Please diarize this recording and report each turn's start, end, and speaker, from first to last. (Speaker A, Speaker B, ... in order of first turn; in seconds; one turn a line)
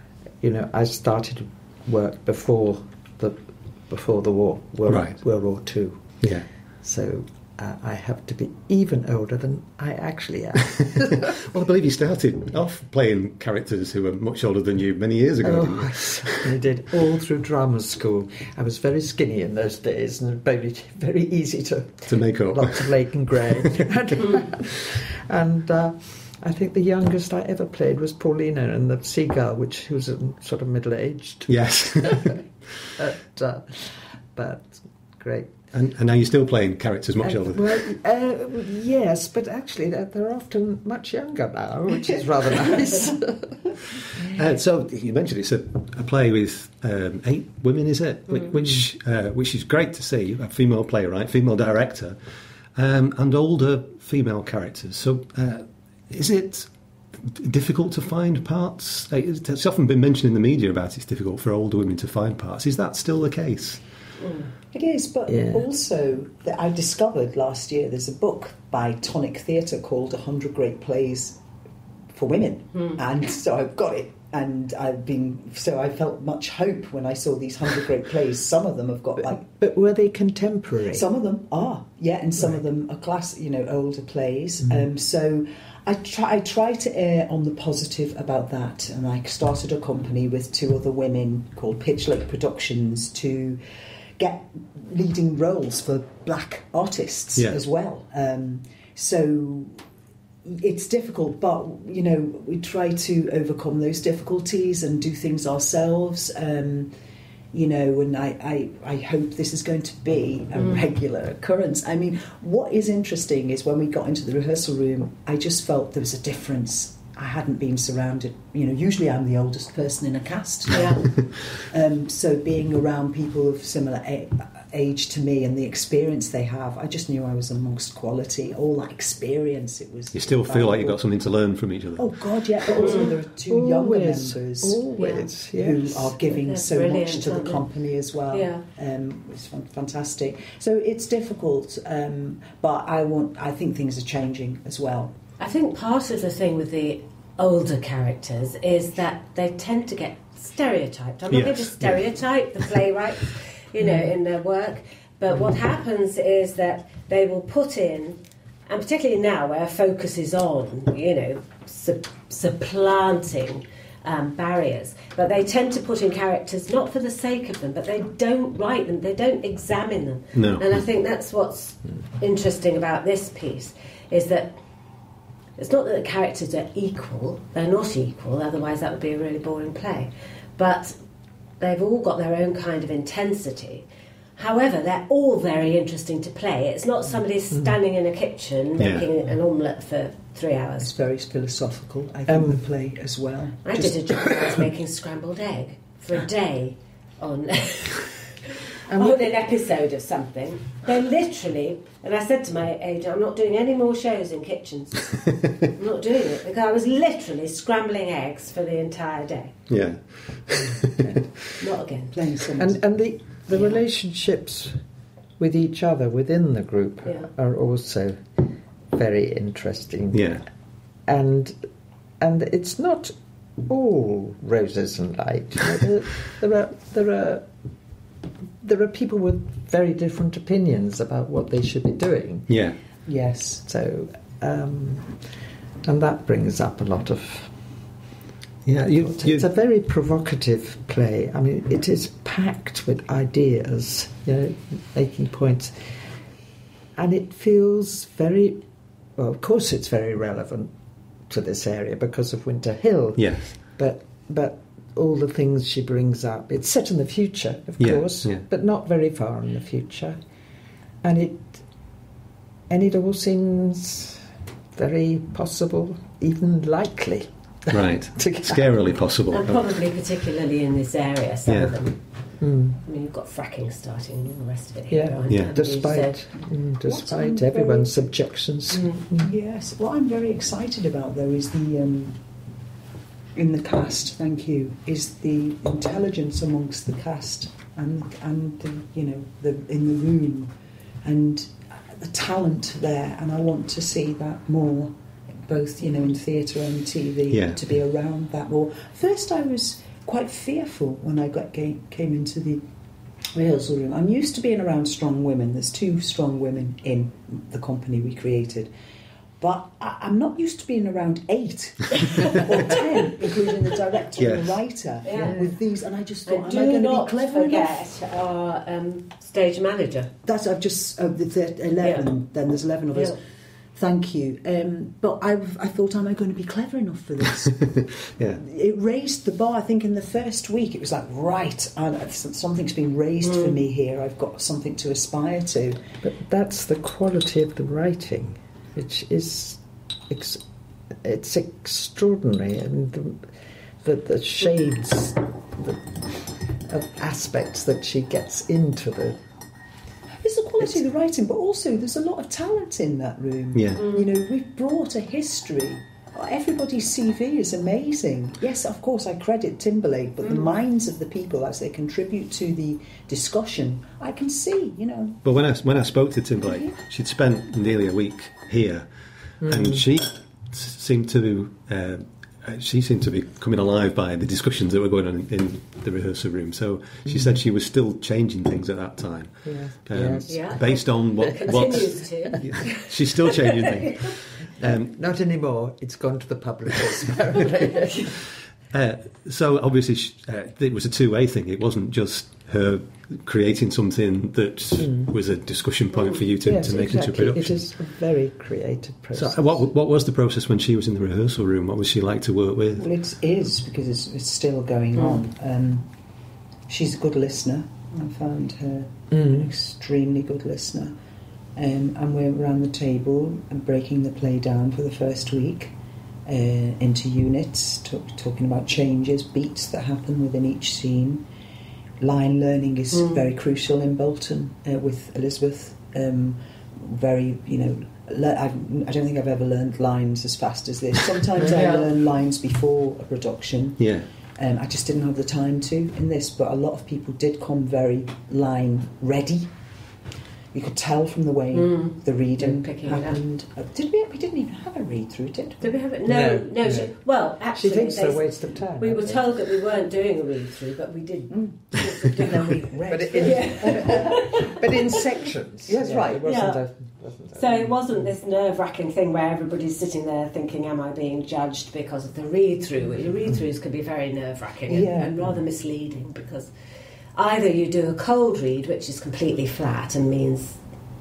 Speaker A: 0.4-11.3
Speaker B: 4.8-5.2
Speaker B: 6.2-6.5
Speaker B: 10.8-16.6
Speaker A: 15.4-32.4
Speaker B: 22.1-23.8
Speaker B: 31.5-32.4
Speaker A: 33.0-35.6
Speaker B: 35.7-37.9
Speaker A: 37.2-43.6
Speaker B: 44.2-52.2
Speaker B: 52.8-63.8
Speaker C: 64.2-64.5
Speaker D: 64.7-71.4
Speaker A: 65.3-65.7
Speaker D: 72.1-79.4
Speaker A: 79.2-81.1
Speaker D: 80.9-93.6
Speaker D: 94.2-99.8
Speaker B: 97.4-97.6
Speaker D: 100.5-106.9
Speaker D: 107.5-131.0
Speaker C: 110.6-110.9
Speaker C: 120.7-121.2
Speaker B: 130.1-132.2
Speaker D: 132.0-134.9
Speaker C: 132.8-133.1
Speaker A: 132.8-136.2
Speaker C: 135.0-135.3
Speaker D: 135.4-145.2
Speaker C: 136.2-137.7
Speaker C: 138.3-138.7
Speaker C: 145.4-174.6
Speaker B: 151.3-152.0
Speaker B: 170.3-170.8
Speaker C: 175.6-181.0
Speaker C: 181.6-183.8
Speaker C: 184.4-190.9
Speaker B: 188.8-189.1
Speaker D: 190.8-194.6
Speaker A: 192.3-192.6
Speaker C: 193.7-198.2
Speaker C: 198.9-209.6
Speaker A: 198.9-199.4
Speaker B: 209.7-211.1
Speaker C: 211.6-212.2
Speaker D: 212.1-212.8
Speaker A: 212.6-214.8
Speaker C: 213.5-213.8
Speaker A: 215.4-220.4
Speaker C: 217.1-217.3
Speaker B: 220.1-220.4
Speaker A: 221.1-221.6
Speaker A: 222.2-227.5
Speaker A: 228.6-232.6
Speaker B: 232.5-232.8
Speaker D: 233.1-233.6
Speaker A: 233.7-235.2
Speaker A: 235.8-237.5
Speaker B: 238.7-239.5
Speaker A: 239.0-246.0
Speaker A: 247.0-248.6
Speaker A: 249.2-250.7
Speaker A: 251.3-260.2
Speaker B: 253.2-253.6
Speaker B: 257.8-258.5
Speaker A: 261.0-261.6
Speaker A: 262.7-268.6
Speaker B: 267.7-269.7
Speaker C: 269.3-272.0
Speaker B: 271.5-271.8
Speaker A: 272.4-272.8
Speaker C: 272.8-276.3
Speaker A: 274.9-279.3
Speaker B: 275.3-275.6
Speaker C: 277.1-277.9
Speaker D: 279.2-282.2
Speaker D: 283.4-290.5
Speaker D: 291.0-294.9
Speaker D: 295.5-302.6
Speaker B: 297.3-297.6
Speaker D: 303.3-308.7
Speaker D: 309.4-317.8
Speaker C: 312.1-314.4
Speaker B: 314.2-314.6
Speaker C: 315.0-315.5
Speaker A: 315.1-315.4
Speaker C: 316.3-320.1
Speaker D: 320.2-323.2
Speaker C: 321.8-322.1
Speaker C: 322.9-323.2
Speaker D: 323.8-335.8
Speaker C: 333.2-333.6
Speaker A: 336.0-340.4
Speaker A: 341.0-349.2
Speaker D: 350.2-365.2
Speaker B: 353.5-353.8
Speaker C: 353.8-354.1
Speaker C: 360.2-360.5
Speaker B: 365.2-368.9
Speaker B: 369.4-384.9
Speaker A: 369.4-369.8
Speaker A: 379.4-380.6
Speaker C: 380.3-384.1
Speaker A: 381.3-382.3
Speaker A: 384.6-388.2
Speaker B: 388.7-397.7
Speaker A: 394.8-395.1
Speaker A: 396.4-399.6
Speaker B: 399.1-402.9
Speaker D: 402.8-405.9
Speaker D: 406.7-410.9
Speaker A: 409.1-409.4
Speaker D: 411.6-415.7
Speaker D: 416.3-421.2
Speaker D: 422.0-439.5
Speaker C: 422.9-423.2
Speaker C: 431.4-431.9
Speaker B: 433.8-434.1
Speaker D: 440.5-445.8
Speaker C: 441.5-443.2
Speaker C: 445.6-455.1
Speaker A: 446.0-446.9
Speaker A: 447.5-449.5
Speaker D: 451.3-454.2
Speaker A: 452.9-457.8
Speaker D: 455.7-456.3
Speaker C: 456.2-456.6
Speaker C: 457.3-466.5
Speaker D: 464.7-465.2
Speaker C: 467.2-470.6